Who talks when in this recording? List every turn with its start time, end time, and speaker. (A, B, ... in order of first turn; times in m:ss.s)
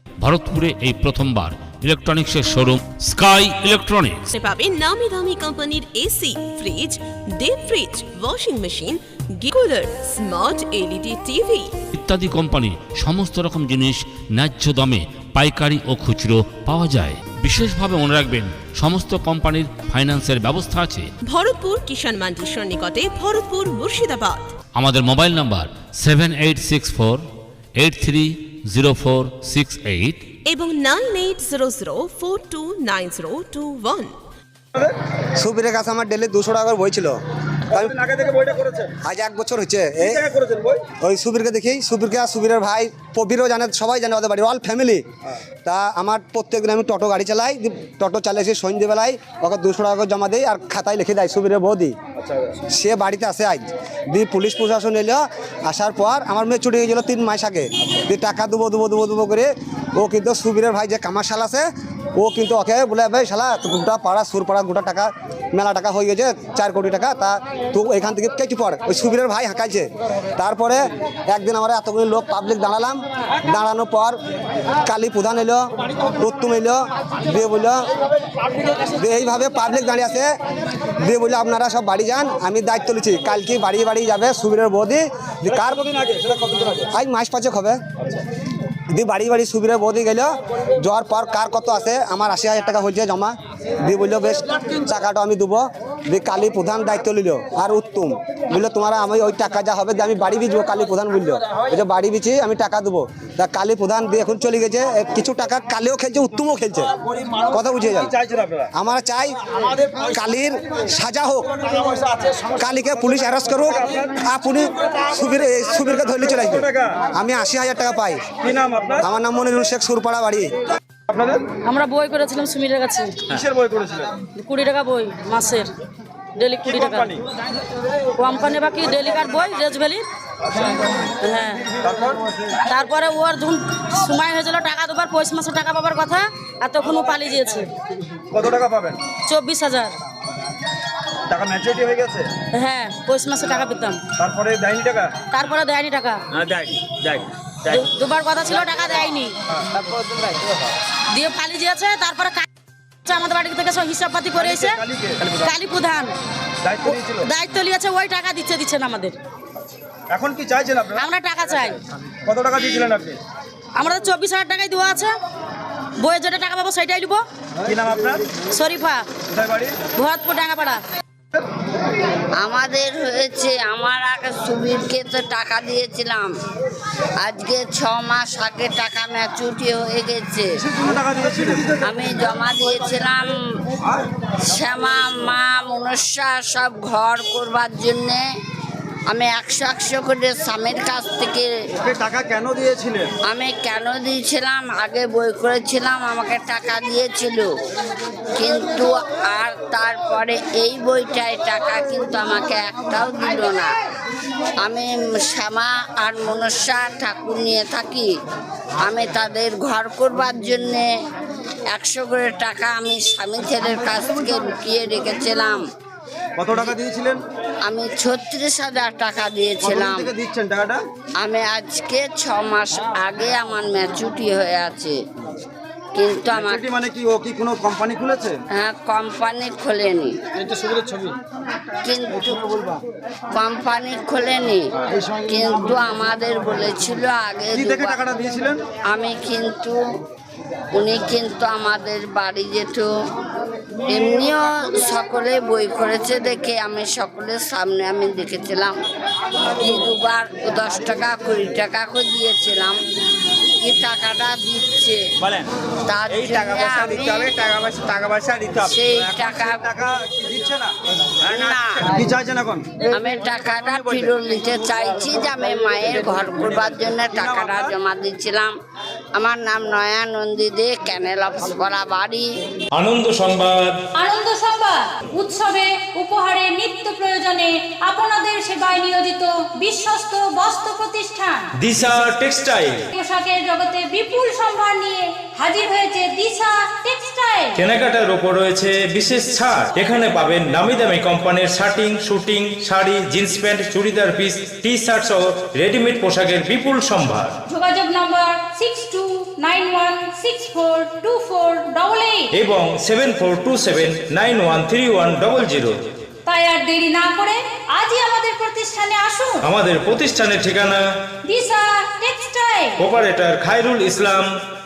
0:00.2-0:04.3 A
0:04.3-0:11.7 B
0:11.9-0:21.1 A
0:21.2-0:24.5 B
0:24.8-0:27.2 A
0:27.8-0:30.2 A
0:30.4-0:34.2 B
0:35.4-0:37.1 C
0:37.7-0:38.9 D
0:39.0-0:40.2 C
0:40.0-0:40.8 D
0:41.0-0:45.0 C
0:45.6-0:51.9 C
0:52.2-0:52.6 D
0:52.7-1:01.6 C
1:02.2-1:14.2 C
1:14.8-1:15.6 C
1:16.1-1:17.8 C
1:18.9-1:20.3 C
1:21.0-1:25.9 C
1:25.7-1:26.8 D
1:26.9-1:27.8 C
1:28.9-1:46.9 C
1:47.5-1:48.1 C
1:48.0-1:48.7 D
1:48.7-1:51.8 C
1:52.5-1:58.3 C
1:53.6-1:54.1 D
1:56.4-1:57.0 D
1:58.4-1:59.0 D
1:59.0-2:00.5 C
2:01.1-2:01.4 D
2:01.6-2:03.2 E
2:03.3-2:04.2 D
2:04.4-2:05.7 E
2:06.4-2:07.1 E
2:06.6-2:07.2 D
2:08.2-2:10.0 E
2:11.2-2:11.6 E
2:11.8-2:12.3 D
2:12.6-2:17.7 E
2:18.3-2:19.0 D
2:19.2-2:19.9 E
2:21.3-2:22.3 D
2:22.5-2:24.0 E
2:24.2-2:25.2 D
2:25.3-2:26.2 E
2:26.4-2:27.8 D
2:27.7-2:29.4 E
2:31.1-2:32.4 E
2:33.0-2:34.8 E
2:34.4-2:35.4 D
2:35.4-2:36.1 E
2:36.6-2:37.2 D
2:36.8-2:39.1 E
2:40.1-2:41.1 D
2:40.9-2:41.8 E
2:42.2-2:43.2 D
2:43.8-2:45.1 E
2:46.0-2:47.2 E
2:47.6-2:48.3 D
2:48.5-2:49.0 E
2:49.3-2:49.8 D
2:50.0-2:50.8 E
2:52.4-2:56.3 F
2:57.2-3:00.5 F
3:00.7-3:01.8 D
3:01.8-3:03.3 F
3:04.4-3:08.2 F
3:09.1-3:11.5 F
3:11.8-3:13.1 D
3:13.3-3:17.5 F
3:18.4-3:23.7 F
3:24.6-3:28.1 F
3:28.8-3:30.9 F
3:31.7-3:35.6 F
3:36.4-3:37.2 D
3:37.6-3:40.1 F
3:39.7-3:40.8 D
3:41.2-3:45.0 F
3:45.9-3:46.7 F
3:46.3-3:48.3 D
3:48.5-3:50.1 F
3:50.5-3:51.1 D
3:51.8-3:52.7 F
3:53.3-3:54.6 F
3:55.2-3:58.0 F
3:57.6-3:58.6 D
3:58.9-3:59.8 F
4:00.7-4:02.9 F
4:03.9-4:08.8 F
4:09.6-4:12.8 F
4:13.6-4:15.0 F
4:15.8-4:17.5 F
4:16.2-4:20.7 D
4:18.6-4:19.6 F
4:21.2-4:22.6 D
4:21.2-4:21.9 F
4:22.9-4:28.5 F
4:27.1-4:27.6 D
4:29.2-4:32.3 F
4:32.7-4:33.8 G
4:34.0-4:41.5 H
4:41.6-4:42.8 G
4:42.9-4:47.6 H
4:47.6-4:57.3 G
4:57.5-5:02.3 H
5:02.3-5:05.8 G
5:06.3-5:09.5 H
5:09.4-5:10.8 G
5:11.3-5:12.8 H
5:12.8-5:14.3 G